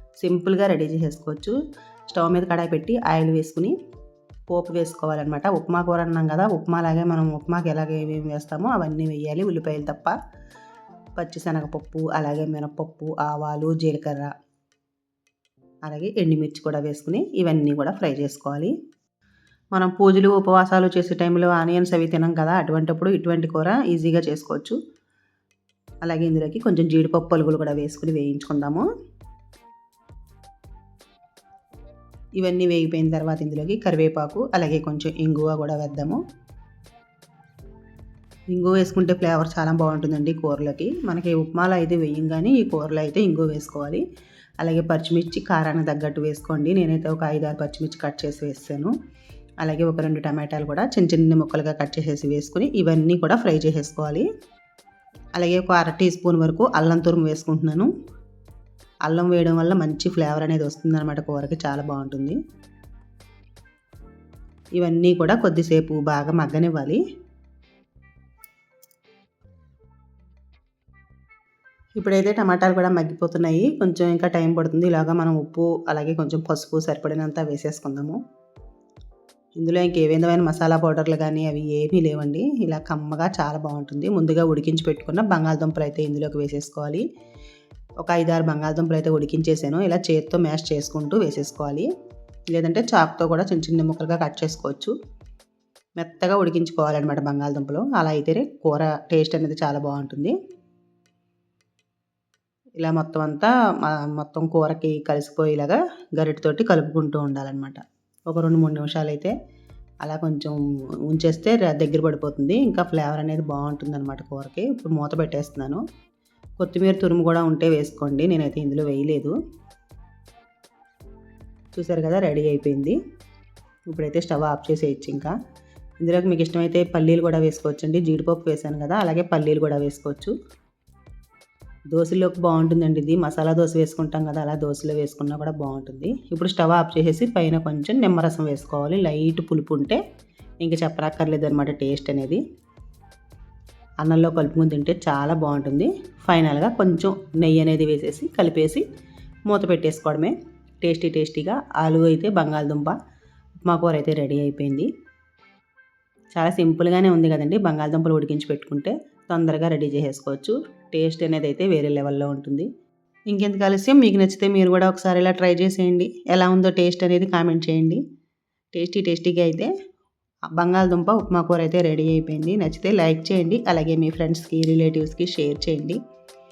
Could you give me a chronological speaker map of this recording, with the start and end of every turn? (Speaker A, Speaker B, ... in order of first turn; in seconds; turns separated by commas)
Speaker A: 0.2-1.6, Speaker A: 2.1-3.8, Speaker A: 4.5-10.2, Speaker A: 11.2-14.3, Speaker A: 15.9-18.7, Speaker A: 19.8-24.8, Speaker A: 26.0-28.9, Speaker A: 32.4-36.2, Speaker A: 38.5-44.0, Speaker A: 44.6-48.9, Speaker A: 49.6-54.3, Speaker A: 55.4-57.9, Speaker A: 59.1-62.4, Speaker A: 64.8-67.0, Speaker A: 72.0-78.2, Speaker A: 79.6-87.0, Speaker A: 88.0-91.9, Speaker A: 92.5-95.0, Speaker A: 96.0-100.3, Speaker A: 102.8-109.3, Speaker A: 110.0-110.6, Speaker A: 111.1-115.8, Speaker A: 116.6-119.4, Speaker A: 121.8-123.0, Speaker A: 123.9-125.3, Speaker A: 126.0-130.3, Speaker A: 131.9-140.0, Speaker A: 140.6-142.4, Speaker A: 144.0-148.8, Speaker A: 149.5-153.0, Speaker A: 153.7-154.9, Speaker A: 156.4-162.7, Speaker A: 163.3-168.0, Speaker A: 168.7-169.7, Speaker A: 170.5-176.0